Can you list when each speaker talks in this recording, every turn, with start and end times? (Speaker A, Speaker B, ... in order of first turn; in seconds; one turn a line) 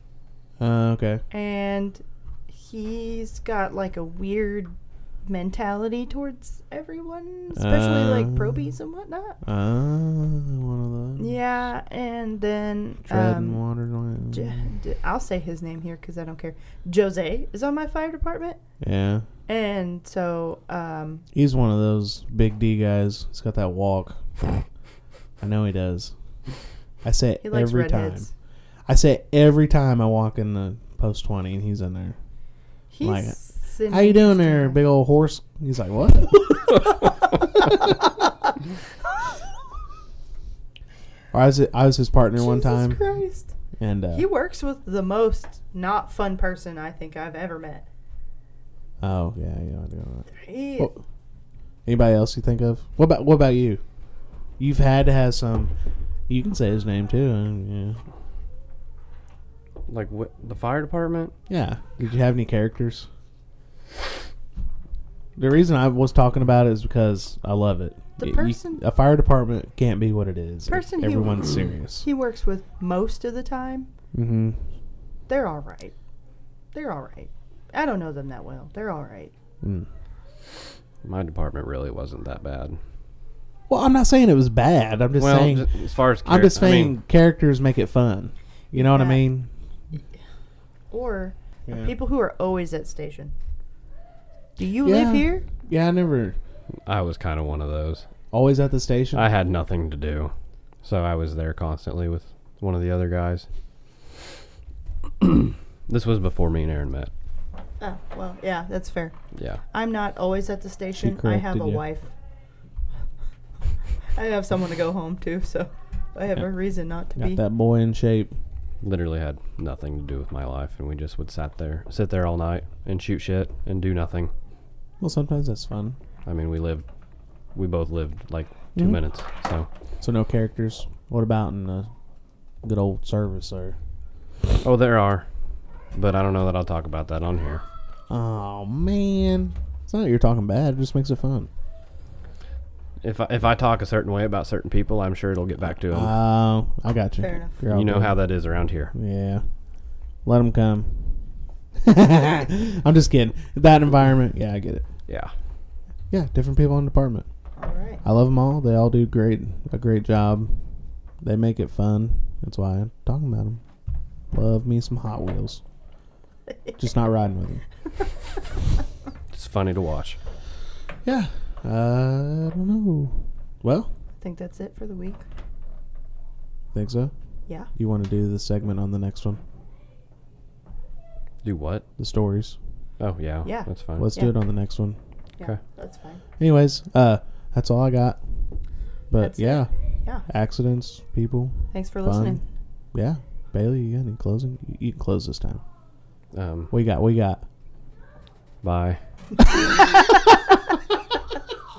Speaker A: 0.6-1.2
Speaker B: 1.3-4.7
Speaker B: 5.2-9.4
Speaker A: 7.5-8.7
Speaker A: 9.4-11.3
Speaker B: 11.2-13.6
Speaker A: 13.1-14.7
Speaker B: 14.3-18.6
Speaker A: 18.8-19.2
Speaker B: 19.5-21.2
Speaker A: 21.3-24.6
Speaker A: 25.4-26.1
Speaker A: 27.0-28.3
Speaker B: 27.4-28.3
Speaker A: 28.9-32.1
Speaker B: 32.9-34.8
Speaker A: 33.0-38.1
Speaker A: 41.3-43.0
Speaker B: 42.3-43.5
Speaker A: 43.8-44.3
Speaker B: 44.1-47.9
Speaker A: 49.0-51.0
Speaker B: 50.3-50.9
Speaker A: 51.9-53.8
Speaker A: 54.6-55.7
Speaker A: 56.3-58.0
Speaker C: 59.9-61.3
Speaker A: 61.5-63.1
Speaker A: 65.3-72.0
Speaker B: 68.2-68.8
Speaker B: 70.7-73.9
Speaker A: 74.1-74.6
Speaker B: 75.3-75.9
Speaker B: 76.7-79.3
Speaker A: 79.6-79.9
Speaker C: 81.0-82.8
Speaker A: 83.7-85.7
Speaker C: 85.2-87.0
Speaker A: 86.2-89.5
Speaker B: 88.7-89.2
Speaker B: 90.9-93.3
Speaker A: 91.7-91.9
Speaker B: 94.6-95.5
Speaker A: 94.8-96.4
Speaker C: 96.8-98.0
Speaker A: 98.3-99.3
Speaker C: 99.1-100.3
Speaker C: 100.8-103.5
Speaker C: 105.2-107.1
Speaker B: 107.8-109.2
Speaker C: 109.3-109.6
Speaker B: 109.7-112.1
Speaker A: 111.0-111.8
Speaker B: 114.1-117.4
Speaker A: 117.2-118.3
Speaker C: 118.8-124.3
Speaker A: 125.0-126.0
Speaker C: 126.2-126.8
Speaker C: 127.5-129.7
Speaker A: 130.0-131.9
Speaker A: 132.6-133.8
Speaker C: 134.6-135.2
Speaker C: 135.9-137.6
Speaker A: 138.1-141.5
Speaker C: 143.0-146.1
Speaker A: 145.9-148.2
Speaker B: 147.2-147.6
Speaker C: 147.7-148.9
Speaker A: 148.9-149.4
Speaker A: 150.2-151.2
Speaker A: 151.8-154.8
Speaker C: 155.1-155.3
Speaker A: 156.1-157.2
Speaker B: 157.6-158.0
Speaker A: 158.0-160.6
Speaker A: 161.2-163.6
Speaker A: 164.3-165.6
Speaker A: 166.8-167.6
Speaker C: 169.3-170.2
Speaker A: 171.0-173.9
Speaker B: 174.2-175.2
Speaker A: 176.7-177.1
Speaker A: 177.7-179.4
Speaker C: 181.4-181.8
Speaker A: 182.0-182.6
Speaker C: 183.0-184.1
Speaker B: 183.4-184.3
Speaker A: 184.0-185.0
Speaker B: 185.4-186.2
Speaker A: 186.4-188.2
Speaker A: 189.1-189.7
Speaker B: 189.2-190.2
Speaker A: 190.3-192.4
Speaker B: 191.7-192.4
Speaker A: 192.9-195.6
Speaker C: 196.3-196.7
Speaker A: 196.7-197.4
Speaker C: 198.6-199.0
Speaker A: 199.4-200.8